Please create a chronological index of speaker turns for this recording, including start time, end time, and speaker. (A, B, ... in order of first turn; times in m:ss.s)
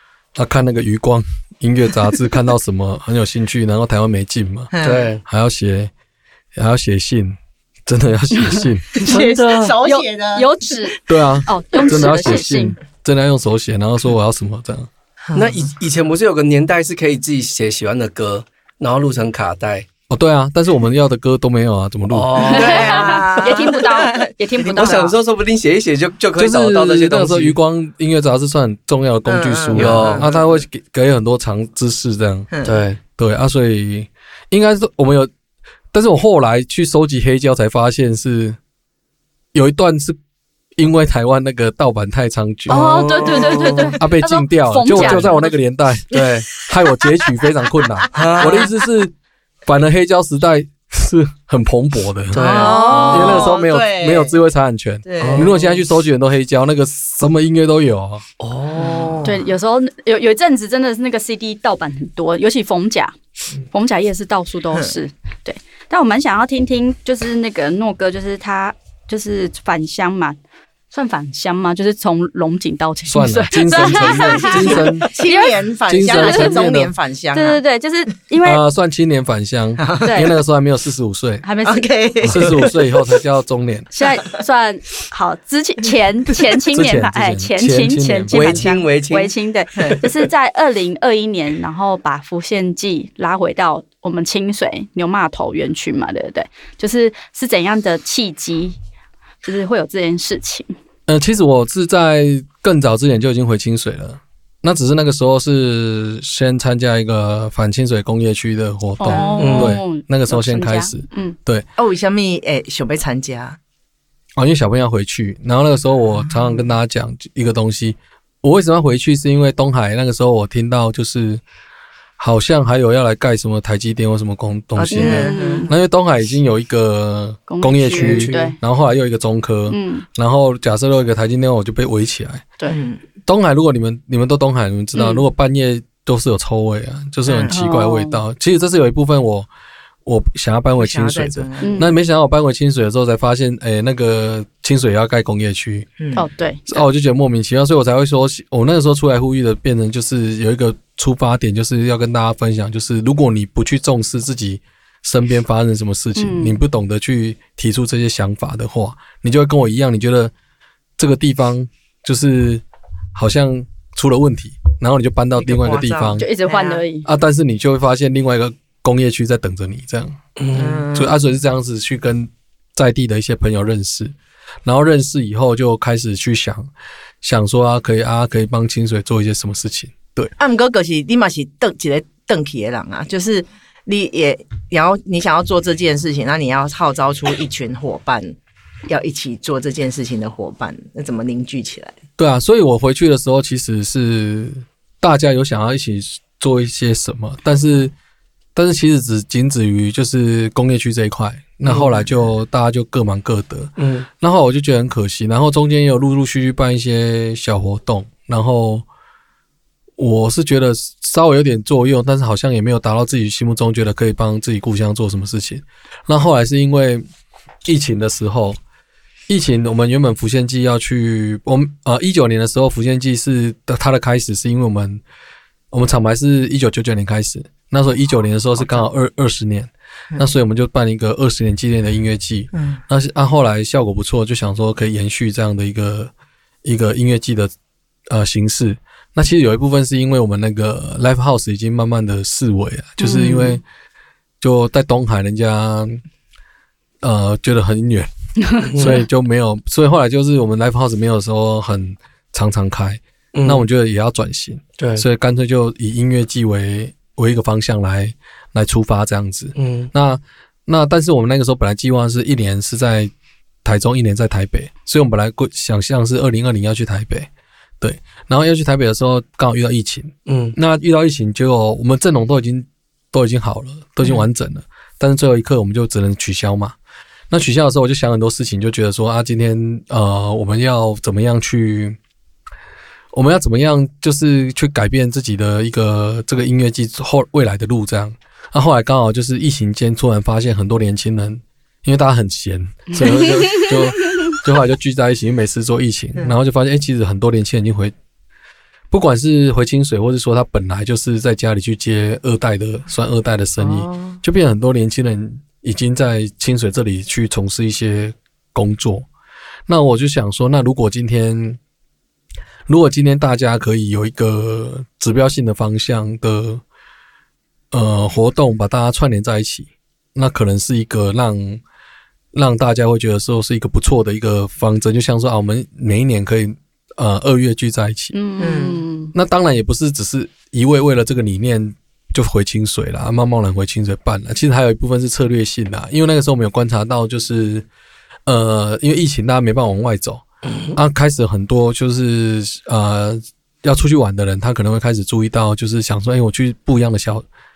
0:00.4-0:04.7 A
0:04.7-0:05.1 B
0:04.8-0:05.2 C
0:05.2-0:05.9 A
0:06.6-0:09.0 A
0:08.9-0:10.9 B
0:09.0-0:09.8 C
0:09.8-0:12.8 D
0:11.1-0:14.9 A
0:11.8-0:12.2 B
0:15.3-0:15.6 B
0:15.3-0:19.9 C
0:20.1-0:22.4 A
0:22.1-0:23.2 C
0:22.4-0:25.2 D
0:22.4-0:25.1 B
0:24.8-0:27.5 C
0:26.4-0:32.5 A
0:29.2-0:30.4 B
0:29.7-0:30.3 C
0:32.5-0:32.8 B
0:32.6-0:33.0 C
0:33.2-0:35.3 A
0:35.9-0:38.6 A
0:39.5-0:40.2 A
0:40.8-0:42.8 A
0:42.7-0:44.0 C
0:42.7-0:45.5 D
0:44.0-0:49.1 A
0:44.9-0:45.3 C
0:46.1-0:46.5 C
0:48.0-0:48.7 B
0:48.1-0:48.7 C
0:49.6-0:58.2 A
0:52.3-0:53.4 C
0:52.4-0:54.3 B
0:52.5-0:53.5 D
0:55.0-0:55.8 B
0:55.2-0:55.6 C
0:58.4-0:59.2 C
0:58.8-0:59.4 B
0:59.2-1:10.4 D
1:10.9-1:16.7 D
1:13.1-1:15.1 A
1:14.4-1:17.6 B
1:15.9-1:16.9 A
1:17.3-1:18.6 D
1:18.4-1:21.4 A
1:19.8-1:20.2 B
1:20.0-1:20.3 D
1:21.4-1:21.9 D
1:21.6-1:23.1 B
1:22.2-1:23.9 A
1:23.9-1:38.8 D
1:26.7-1:28.6 A
1:28.3-1:30.3 C
1:39.4-1:40.7 D
1:41.1-1:51.7 A
1:49.0-1:51.4 D
1:49.1-1:49.6 B
1:49.4-1:49.8 C
1:51.8-1:53.6 B
1:54.4-2:01.4 A
2:02.2-2:12.5 A
2:04.8-2:05.7 B
2:04.9-2:05.7 D
2:07.5-2:08.6 D
2:08.0-2:08.4 C
2:09.7-2:10.0 D
2:12.7-2:13.0 B
2:13.2-2:19.5 A
2:14.9-2:15.2 D
2:17.2-2:17.6 B
2:17.5-2:18.2 D
2:20.0-2:25.9 A
2:20.8-2:21.9 B
2:21.6-2:21.9 D
2:26.0-2:26.2 B
2:26.1-2:26.8 D
2:26.7-2:40.3 A
2:36.2-2:36.6 D
2:41.0-2:42.6 A
2:43.1-2:46.2 A
2:45.4-2:46.8 B
2:46.2-2:47.0 D
2:47.0-2:50.2 A
2:50.4-2:50.8 C
2:50.5-2:51.1 B
2:50.9-2:54.1 A
2:54.6-2:56.7 A
2:57.2-3:00.3 A
3:00.4-3:08.4 B
3:08.9-3:12.0 B
3:12.2-3:17.9 A
3:18.5-3:28.8 A
3:21.7-3:22.0 B
3:23.8-3:24.1 C
3:30.0-3:37.0 A
3:37.6-3:38.6 A
3:39.3-3:45.0 A
3:45.7-3:56.1 A
3:52.5-3:52.8 B
3:56.6-3:57.5 A
3:58.1-4:03.6 A
4:03.0-4:03.6 D
4:04.4-4:06.0 A
4:07.0-4:08.1 A
4:08.5-4:08.8 D
4:08.6-4:23.1 A
4:08.6-4:09.0 C
4:13.3-4:13.6 C
4:14.8-4:15.0 C
4:19.6-4:19.9 C
4:23.6-4:27.3 A
4:27.8-4:36.7 A
4:30.3-4:30.5 C
4:37.3-4:42.0 A
4:43.1-4:57.9 A
4:52.9-4:54.4 D
4:58.9-5:09.1 A
5:03.6-5:04.2 B
5:09.7-5:11.6 A
5:12.7-5:16.6 A
5:17.7-5:21.6 A
5:22.3-5:28.1 A
5:28.1-5:29.1 D
5:28.4-5:28.8 B
5:29.1-5:37.6 A
5:38.2-5:40.2 A
5:40.4-5:40.8 C
5:40.7-5:47.2 A